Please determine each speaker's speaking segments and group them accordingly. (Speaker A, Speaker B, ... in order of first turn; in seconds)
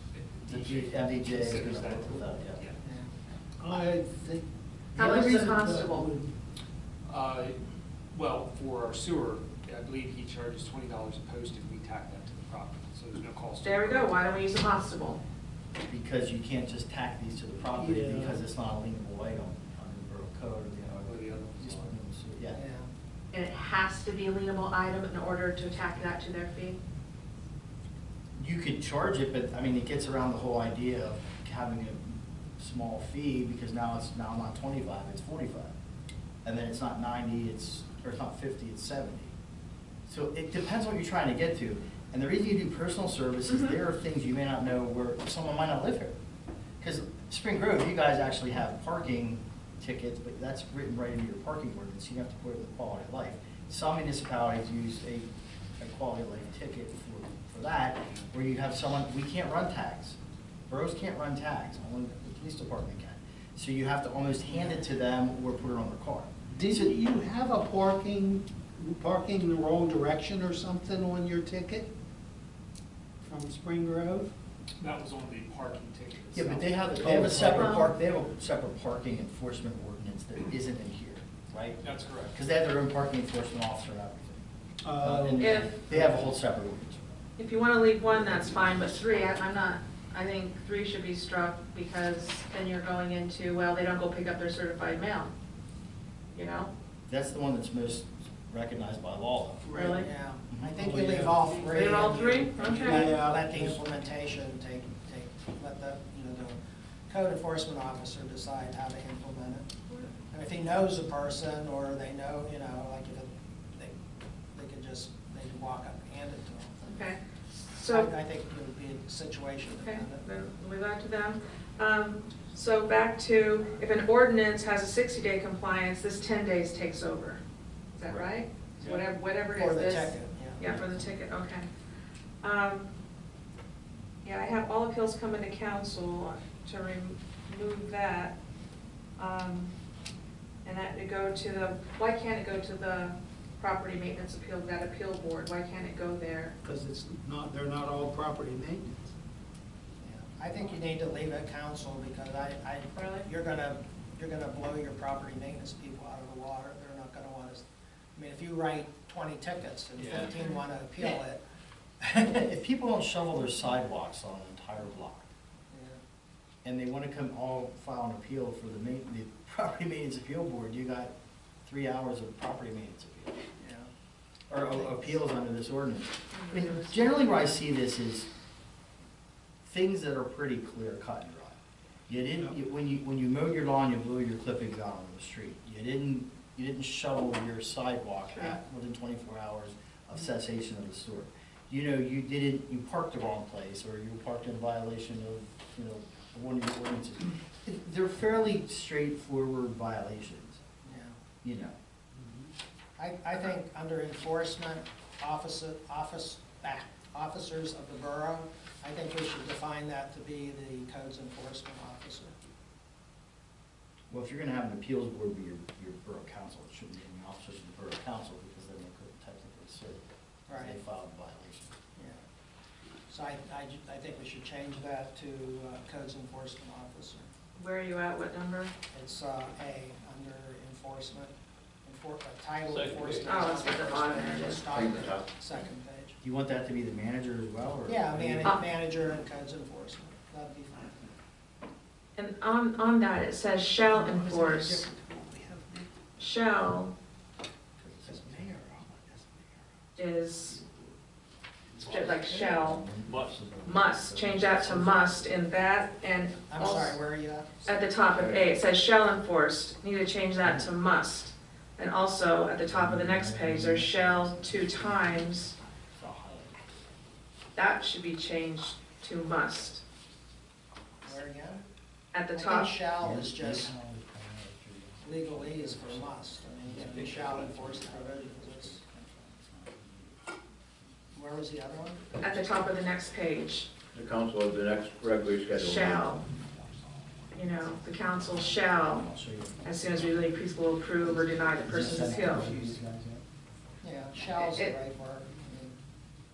Speaker A: 0.2-2.8, 7.0-7.6, 8.1-14.2, 21.0-21.9, 74.8-76.9, 81.8-82.3
Speaker B: 0.5-2.6, 5.0-5.3, 15.9-22.6, 28.4-35.7, 36.4-39.3, 40.1-46.1, 46.8-55.3, 55.8-60.2, 60.7-66.9, 76.3-87.1, 97.1-100.8, 162.0-165.3, 166.6-171.1, 171.6-173.4, 174.5-178.3, 179.6-200.6, 201.4-201.7, 214.1-220.0, 220.5-221.8, 236.2-238.6, 247.8-248.7, 250.5-250.9, 251.8-255.4, 260.4-260.7, 262.6-266.6, 273.0-280.2, 286.2-290.3, 291.0-293.2
Speaker C: 2.8-3.1, 22.5-22.9, 99.7-106.6, 107.1-109.7, 110.3-113.9, 114.5-116.9, 117.9-120.2, 128.8-130.8, 150.0-157.6, 158.1-161.4, 165.7-166.0, 173.6-173.9, 174.5-175.2, 200.8-201.2, 203.0-212.3, 220.5-220.8, 223.1-227.3, 228.9-231.3, 231.8-236.2, 237.8-241.0, 256.5-257.6, 271.0-271.6, 272.3-273.7, 275.0-278.8, 281.1-282.0, 293.8-295.8
Speaker D: 3.6-4.4, 5.0-6.3, 17.7-18.4, 66.5-71.9, 73.2-74.3, 77.0-77.9, 84.8-86.2, 100.7-101.7, 102.8-103.8, 146.6-149.0, 243.8-245.9, 248.1-249.3, 291.9-292.6
Speaker E: 4.9-6.1, 13.6-15.2, 23.3-26.8, 43.5-43.8, 77.4-77.9, 85.4-85.8, 87.4-95.3, 96.3-96.7, 99.7-100.1, 101.6-103.1, 116.8-118.1, 119.7-127.4, 128.0-131.7, 132.4-132.9, 134.2-138.3, 139.2-139.7, 140.6-146.6, 152.9-153.2, 176.3-176.9, 227.6-228.7, 233.2-234.7, 242.2-244.9, 246.2-246.9, 250.0-250.6, 251.8-252.9, 253.6-257.0, 257.6-265.5, 267.6-269.8, 272.1-272.7, 282.2-283.7, 285.5-286.2, 287.3-289.1, 289.6-292.5, 294.4-294.7
Speaker F: 232.7-233.3, 234.7-235.3, 258.1-258.4, 283.9-286.2